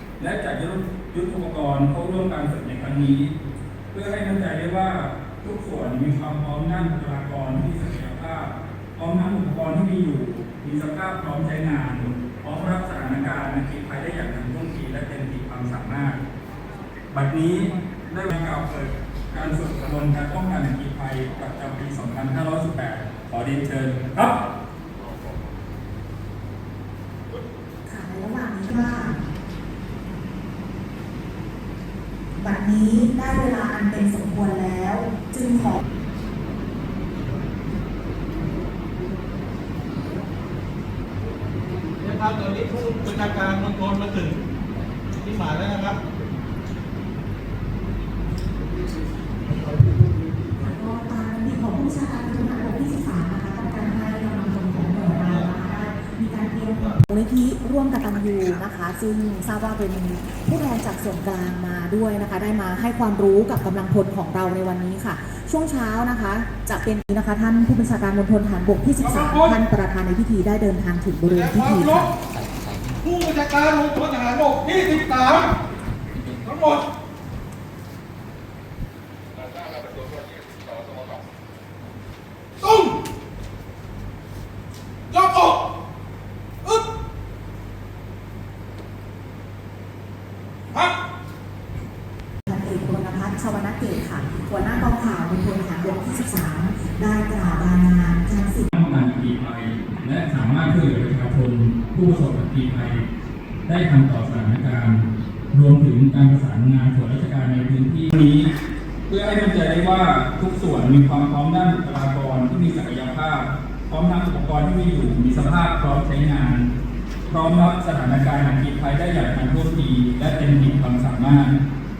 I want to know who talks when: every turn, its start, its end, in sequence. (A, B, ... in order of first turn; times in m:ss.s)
0:00.2-0:03.3 A
0:03.9-0:16.2 A
0:17.1-0:24.4 A
0:27.8-0:29.2 B
0:32.4-0:35.8 B
0:42.0-0:44.4 C
0:45.2-0:46.0 C
0:50.6-1:12.1 B
1:09.0-1:09.6 C
1:11.3-1:12.1 C
1:13.0-1:15.5 C
1:16.3-1:16.8 C
1:22.6-1:22.9 C
1:25.1-1:25.6 C
1:32.5-1:38.7 B
1:38.7-1:43.0 A
1:43.7-1:48.5 A
1:49.1-1:56.7 A
1:57.3-2:01.6 A